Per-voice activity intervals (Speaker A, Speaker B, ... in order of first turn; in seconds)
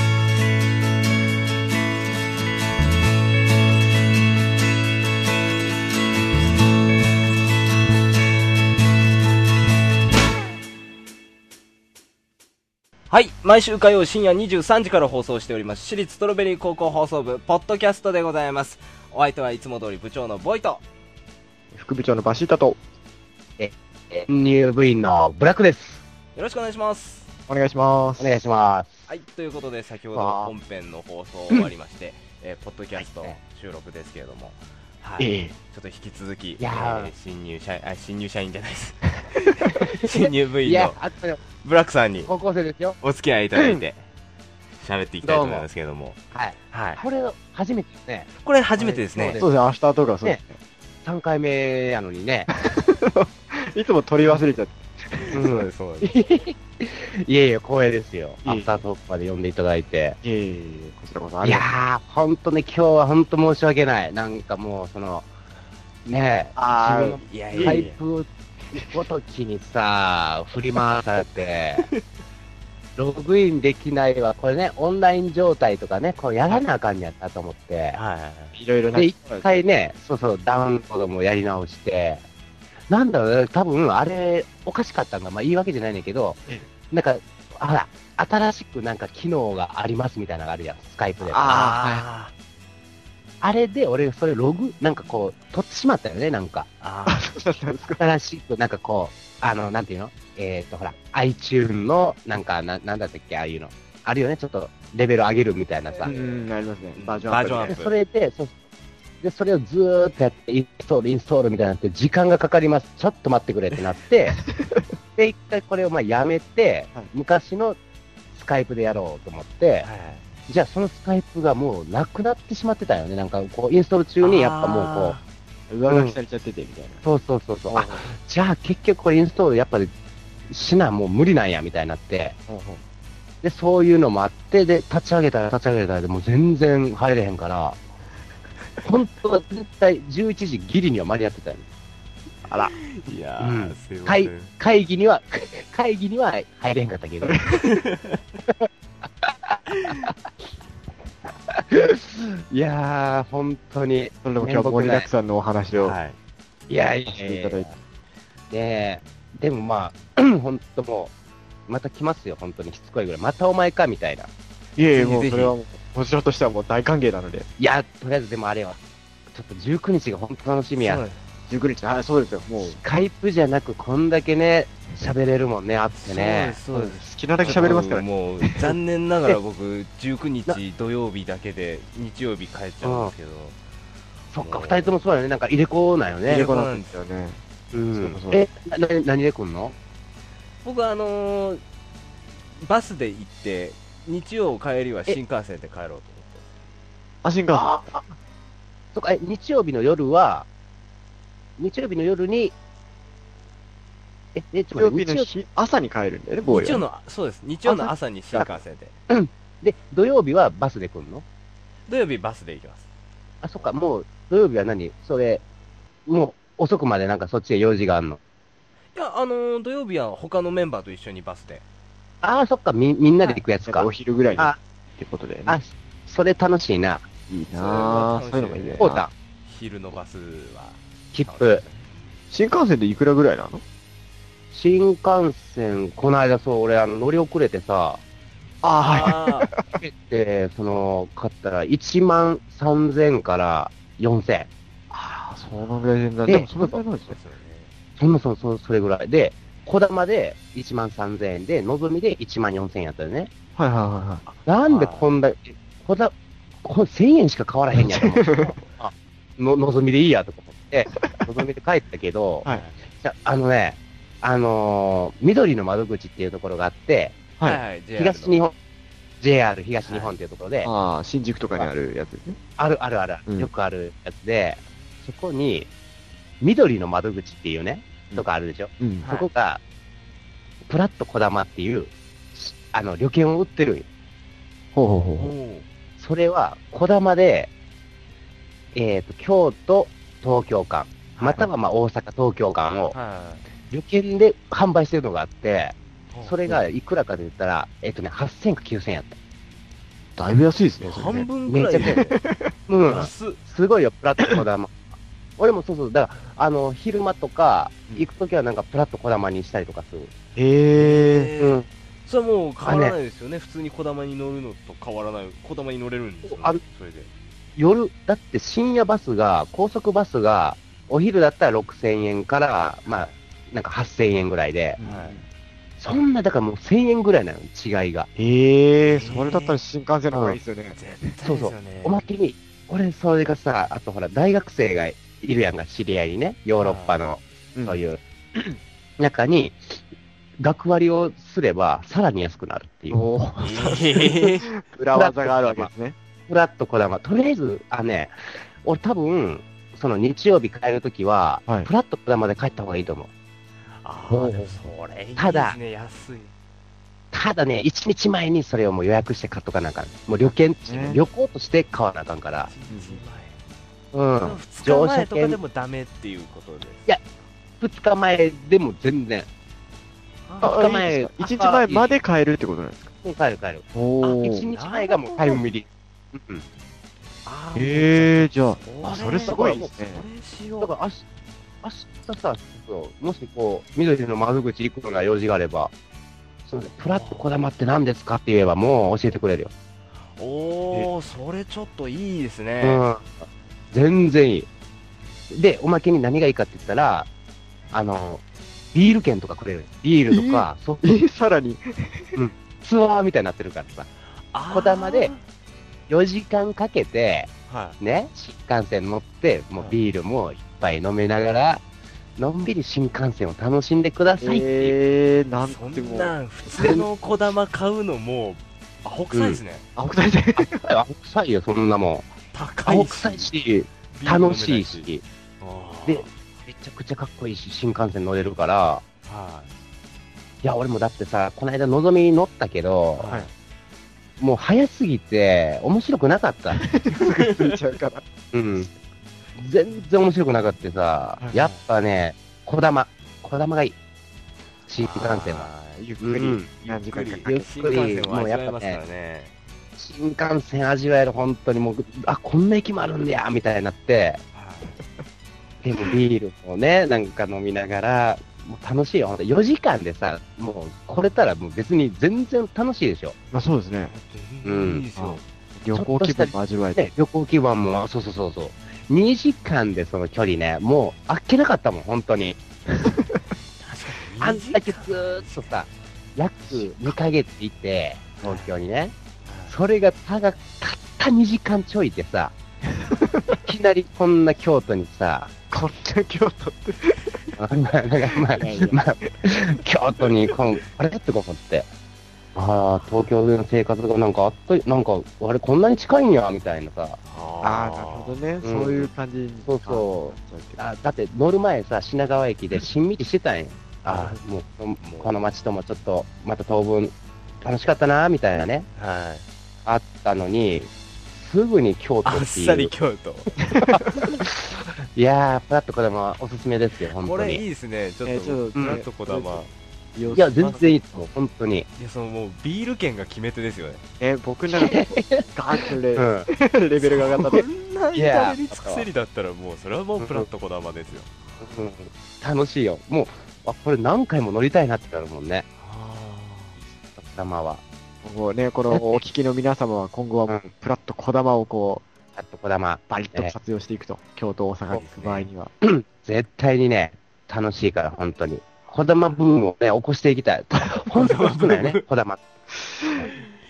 Speaker A: 13.1-20.8, 26.3-27.3, 29.1-41.0, 41.6-42.3, 43.0-44.0, 44.8-46.2, 46.7-47.0, 48.3-49.4, 55.4-56.1, 67.2-68.0, 77.9-78.5, 91.4-92.3, 96.8-97.3, 105.8-107.9, 119.8-120.2, 124.2-125.2, 142.7-144.5, 147.6-148.2, 149.7-150.1, 155.8-156.2, 164.9-165.6, 170.8-171.2, 175.9-183.6, 184.4-184.9, 186.3-186.9, 190.6-191.6, 192.6-196.4, 206.5-208.9, 211.9-212.8, 218.9-221.6, 227.5-231.8, 238.8-239.5, 247.1-247.7, 254.2-255.1, 262.4-262.7, 267.4-268.4, 269.8-270.1, 279.0-279.3, 285.2-285.6, 291.1-291.4, 292.9-293.5, 300.8-302.2, 302.8-303.4, 310.7-317.1, 322.8-323.1, 324.8-325.2, 328.9-329.6, 330.7-332.1, 336.6-337.0, 343.4-344.5, 353.8-356.3, 362.4-363.4, 364.2-366.9, 370.3-370.6, 374.0-375.5, 377.2-380.7, 386.9-387.3, 390.2-392.8, 404.3-405.2, 407.5-407.8, 415.4-419.6, 422.3-423.3, 423.9-424.9, 425.4-426.1, 429.0-429.5, 433.0-433.3, 436.9-437.6, 441.3-441.6, 444.8-445.8, 446.6-449.3, 454.3-454.8, 463.9-465.2, 473.6-475.7, 478.2-478.5, 479.2-479.6, 497.0-498.2, 503.9-504.2, 504.8-505.1, 508.7-509.2, 512.0-513.3, 517.0-519.5, 521.8-523.8, 526.8-531.1, 535.6-536.6, 544.7-545.3, 550.9-551.8
Speaker B: 21.7-22.8, 27.5-28.4, 30.1-30.5, 35.2-35.5, 49.3-50.6, 52.5-55.4, 58.4-58.8, 60.2-61.7, 66.5-67.9, 78.5-79.6, 91.3-92.0, 97.1-98.0, 106.0-107.8, 114.5-114.8, 125.7-127.0, 127.7-128.1, 132.5-132.8, 142.5-142.7, 147.2-147.5, 154.2-156.0, 157.1-157.7, 164.8-167.5, 171.5-172.8, 176.7-178.7, 186.2-187.4, 187.9-188.4, 197.2-197.8, 204.7-206.8, 223.6-225.6, 227.3-229.0, 232.3-233.6, 238.6-239.7, 244.9-247.2, 253.6-254.2, 257.8-258.5, 270.6-272.4, 278.8-279.0, 284.7-285.3, 296.1-296.6, 300.2-301.3, 301.8-302.5, 310.3-311.3, 324.8-325.2, 328.1-330.9, 337.5-337.8, 342.9-345.9, 360.2-361.0, 362.7-363.0, 370.4-372.9, 373.7-374.4, 377.5-380.0, 400.1-402.2, 414.2-416.1, 419.8-420.6, 433.0-433.3, 436.5-438.0, 445.8-447.9, 463.3-463.9, 465.0-466.9, 472.8-473.2, 476.5-476.9, 482.8-483.4, 485.5-487.2, 488.3-489.3, 497.4-500.6, 513.5-513.8, 518.0-520.8, 524.0-527.5, 538.0-541.9, 542.9-545.5, 552.8-553.1
Speaker C: 23.6-26.0, 28.2-29.1, 33.0-33.4, 36.6-37.1, 40.0-41.4, 42.2-43.0, 45.2-45.7, 46.3-49.5, 51.0-52.5, 55.3-60.2, 61.4-65.3, 66.0-71.9, 73.0-78.0, 78.9-82.2, 82.9-91.8, 93.4-96.7, 97.7-106.2, 107.6-108.5, 109.2-114.4, 115.2-117.8, 118.3-119.9, 120.5-125.2, 125.9-126.2, 127.0-129.9, 130.5-132.4, 133.4-137.8, 138.8-141.6, 143.4-147.4, 149.2-150.1, 151.5-155.1, 156.7-157.7, 158.5-161.1, 161.7-164.3, 167.6-168.8, 169.3-171.0, 172.6-176.6, 177.4-177.8, 182.8-183.1, 184.3-186.5, 187.7-189.8, 197.5-198.0, 198.9-200.5, 201.6-202.5, 204.3-205.3, 207.6-208.5, 209.1-211.2, 213.4-215.4, 216.1-218.2, 222.2-224.6, 225.4-227.1, 228.8-229.1, 231.1-231.6, 234.5-238.0, 239.7-244.5, 246.2-246.8, 248.0-253.3, 254.4-267.1, 267.9-268.5, 269.2-270.7, 272.6-275.7, 276.4-279.6, 280.7-283.9, 286.0-287.5, 288.7-292.9, 293.7-299.1, 301.4-302.0, 302.7-304.7, 305.4-310.1, 311.4-311.7, 312.6-313.0, 316.2-316.6, 317.6-324.8, 325.8-328.1, 330.1-330.4, 331.2-338.4, 339.0-339.8, 340.4-343.1, 344.9-345.7, 346.3-353.1, 354.1-354.5, 355.2-355.6, 357.1-362.5, 363.9-365.4, 367.6-369.3, 370.4-371.9, 373.0-373.6, 374.2-376.4, 379.0-379.7, 380.6-381.0, 381.6-385.7, 386.5-389.5, 392.6-394.5, 395.3-397.1, 397.7-398.2, 398.7-400.8, 402.1-403.9, 404.5-405.1, 405.9-411.6, 412.2-414.7, 416.5-416.9, 419.1-419.4, 420.4-422.1, 422.6-425.0, 425.9-428.8, 430.4-433.1, 434.2-436.6, 438.3-438.7, 439.4-443.8, 444.7-445.5, 446.0-446.5, 447.2-448.8, 449.8-454.2, 455.6-463.1, 464.4-464.9, 465.7-472.4, 474.2-478.9, 479.5-482.3, 483.4-485.3, 487.4-491.7, 492.3-497.0, 498.4-498.9, 499.5-508.7, 509.6-512.7, 513.7-517.4, 518.5-518.8, 520.1-521.7, 524.5-525.2, 525.9-526.3, 527.9-528.9, 530.0-530.3, 531.4-535.5, 537.0-537.6, 538.7-539.0, 542.1-543.3, 545.6-552.2